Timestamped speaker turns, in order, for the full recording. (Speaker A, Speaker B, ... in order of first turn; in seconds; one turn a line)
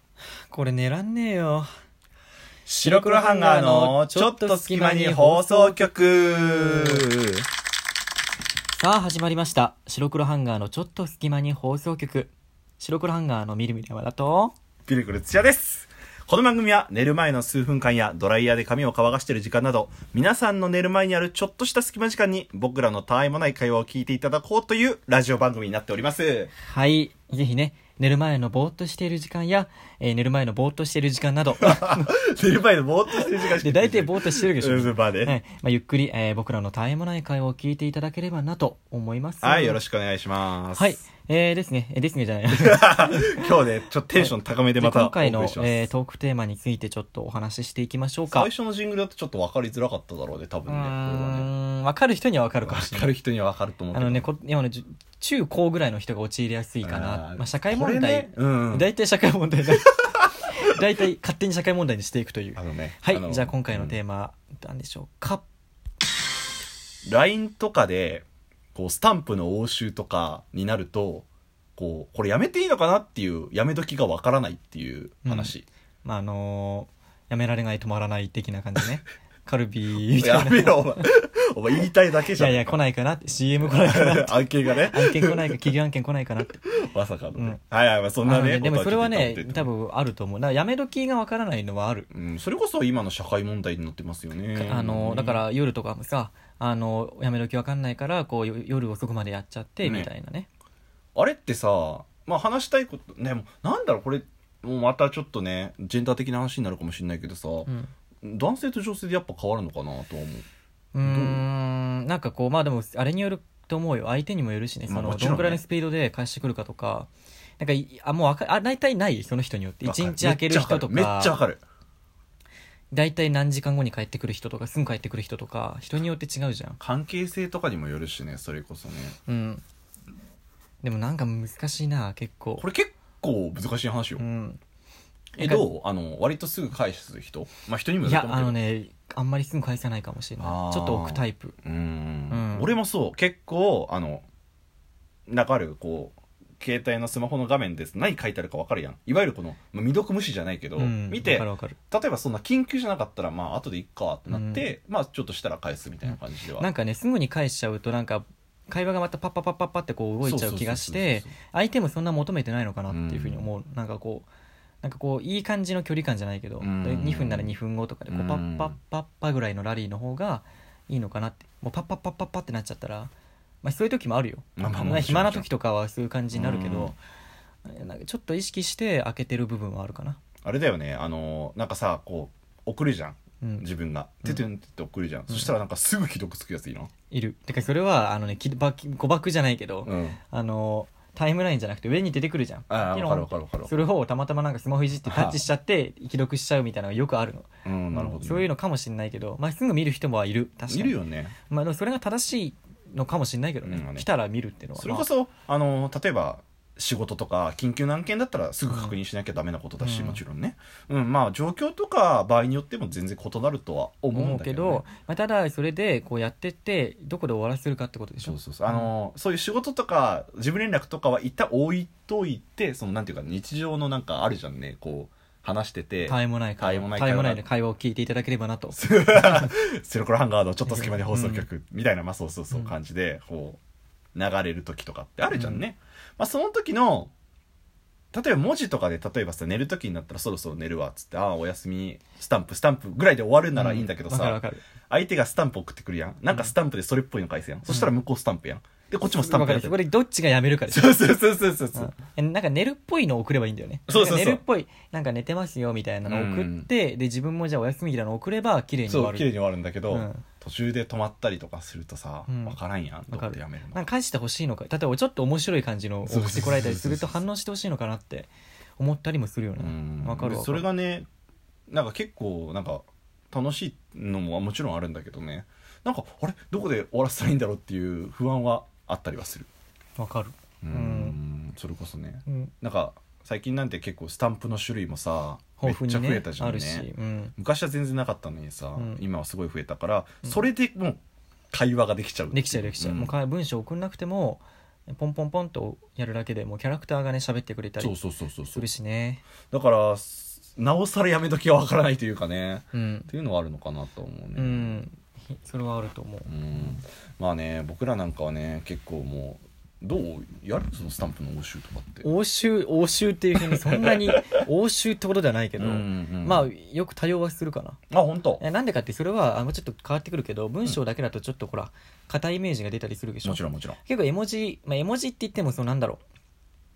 Speaker A: 0.5-1.7
Speaker B: 2.7-7.5
Speaker A: 2.8-7.1
Speaker A: 8.7-14.5
Speaker B: 14.9-26.5
Speaker A: 26.6-32.1
Speaker B: 31.6-35.4
Speaker A: 33.5-39.8
Speaker B: 39.4-41.0
Speaker A: 40.7-43.5
Speaker B: 42.5-45.9
Speaker A: 44.2-48.5
Speaker B: 48.3-51.5
Speaker A: 50.7-53.1
Speaker B: 52.6-54.3
Speaker A: 53.9-65.4
Speaker B: 56.8-58.9
Speaker B: 62.6-64.0
Speaker B: 67.1-75.7
Speaker A: 75.2-75.5
Speaker A: 76.0-81.1
Speaker B: 80.1-82.8
Speaker A: 82.4-86.6
Speaker B: 83.6-85.5
Speaker B: 86.7-89.7
Speaker A: 88.2-92.1
Speaker B: 92.1-95.4
Speaker A: 94.5-100.5
Speaker B: 99.8-100.1
Speaker B: 101.2-107.7
Speaker B: 108.2-110.5
Speaker A: 110.9-121.4
Speaker B: 111.0-111.5
Speaker B: 114.9-115.6
Speaker B: 119.8-121.6
Speaker A: 122.9-126.8
Speaker B: 126.8-129.2
Speaker A: 129.3-129.6
Speaker A: 130.8-132.7
Speaker B: 132.6-134.2
Speaker A: 134.2-134.6
Speaker B: 135.4-138.6
Speaker A: 135.4-135.7
Speaker A: 138.0-141.6
Speaker B: 140.4-144.3
Speaker A: 142.3-142.7
Speaker B: 145.3-156.7
Speaker A: 150.8-151.8
Speaker A: 154.3-154.7
Speaker A: 156.1-164.3
Speaker B: 160.2-161.3
Speaker B: 162.9-163.5
Speaker A: 164.8-173.1
Speaker B: 166.6-167.6
Speaker B: 168.1-168.8
Speaker A: 173.6-177.0
Speaker B: 174.6-175.5
Speaker B: 176.3-176.9
Speaker A: 177.7-180.2
Speaker B: 180.4-186.9
Speaker A: 187.1-201.0
Speaker B: 189.9-190.2
Speaker B: 192.7-193.8
Speaker B: 195.1-195.4
Speaker B: 197.7-198.5
Speaker B: 200.7-201.3
Speaker A: 201.5-205.1
Speaker B: 203.6-204.1
Speaker B: 204.8-214.8
Speaker A: 208.7-209.0
Speaker A: 209.8-210.2
Speaker A: 214.1-218.9
Speaker B: 218.2-227.4
Speaker A: 226.1-229.5
Speaker B: 228.7-233.6
Speaker A: 230.7-231.5
Speaker B: 234.2-237.1
Speaker A: 235.3-235.6
Speaker B: 238.1-249.8
Speaker A: 243.5-244.6
Speaker A: 247.7-247.9
Speaker A: 249.1-251.1
Speaker B: 250.7-251.9
Speaker A: 251.8-259.3
Speaker B: 253.9-254.4
Speaker B: 256.1-256.7
Speaker B: 258.9-263.8
Speaker A: 259.9-260.2
Speaker A: 262.3-262.6
Speaker A: 263.1-270.7
Speaker B: 266.1-267.2
Speaker B: 269.6-271.1
Speaker B: 271.7-279.5
Speaker A: 280.0-281.2
Speaker B: 280.6-291.0
Speaker A: 282.3-282.5
Speaker A: 285.6-287.3
Speaker A: 288.8-289.0
Speaker B: 291.5-293.1
Speaker A: 292.3-297.9
Speaker B: 297.8-298.7
Speaker A: 298.5-299.2
Speaker B: 299.5-304.8
Speaker A: 302.7-303.1
Speaker A: 304.4-306.8
Speaker B: 306.3-312.1
Speaker A: 312.0-317.8
Speaker B: 313.4-314.4
Speaker B: 315.6-316.5
Speaker B: 317.9-318.4
Speaker A: 318.4-326.0
Speaker B: 323.2-323.8